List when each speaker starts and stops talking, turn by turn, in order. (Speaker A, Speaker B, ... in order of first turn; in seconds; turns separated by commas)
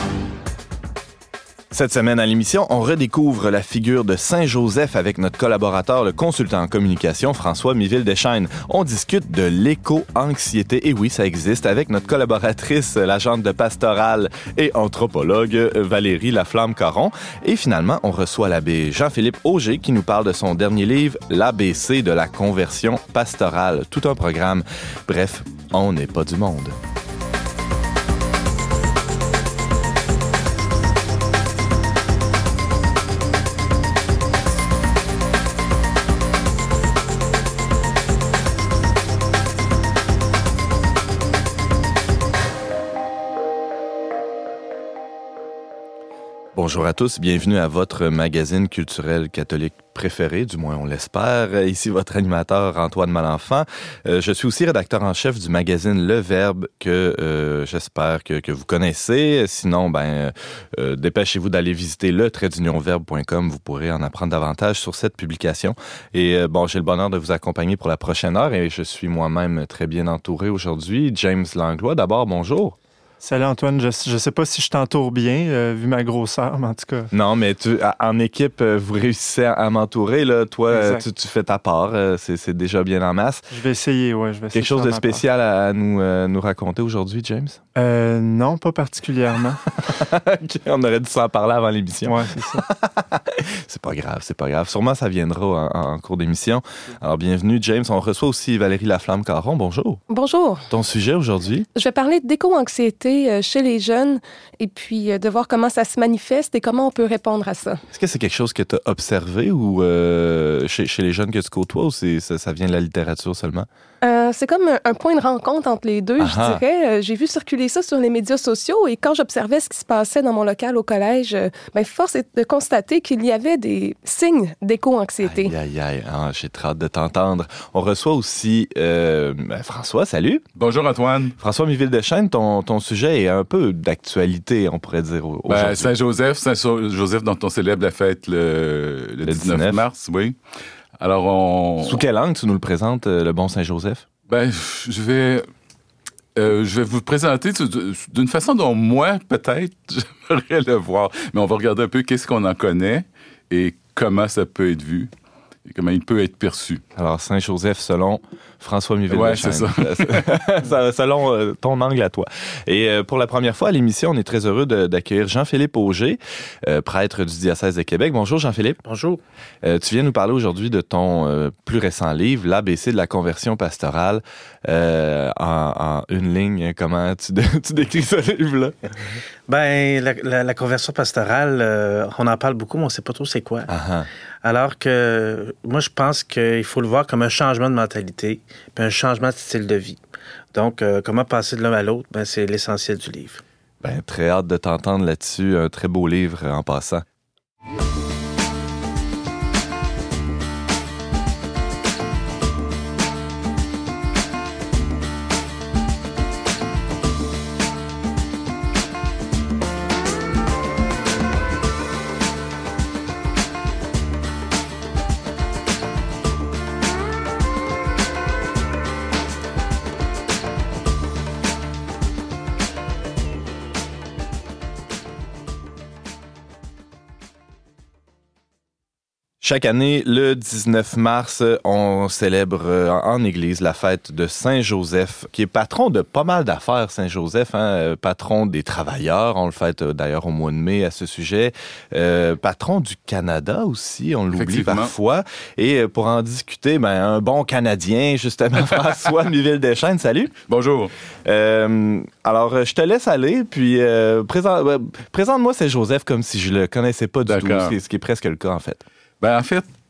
Speaker A: 1.7-26.8, Speaker A: 46.5-72.8, Speaker B: 73.2-77.1, Speaker A: 77.1-83.5, Speaker B: 80.7-81.0, Speaker B: 83.5-85.2, Speaker A: 84.5-87.6, Speaker B: 87.8-89.7, Speaker A: 89.9-100.0, Speaker B: 92.0-92.6, Speaker C: 100.1-100.7, Speaker A: 100.7-101.7, Speaker C: 101.8-107.8, Speaker A: 107.9-113.7, Speaker C: 114.0-125.5, Speaker A: 116.2-116.6, Speaker A: 125.2-130.4, Speaker D: 130.6-131.4, Speaker A: 131.4-135.9, Speaker D: 135.5-140.4, Speaker A: 139.2-139.8, Speaker D: 141.0-142.1, Speaker A: 141.8-144.1, Speaker D: 144.3-145.5, Speaker D: 146.4-155.1, Speaker D: 155.7-156.8, Speaker A: 157.0-168.8, Speaker D: 159.1-160.4, Speaker E: 168.8-169.2, Speaker A: 169.6-178.8, Speaker E: 179.5-183.7, Speaker A: 183.7-184.1, Speaker E: 184.4-190.0, Speaker E: 190.5-193.4, Speaker A: 193.8-197.1, Speaker A: 229.4-250.3, Speaker D: 244.3-244.9, Speaker D: 250.5-250.9, Speaker A: 251.2-258.8, Speaker D: 257.3-257.8, Speaker D: 259.2-259.7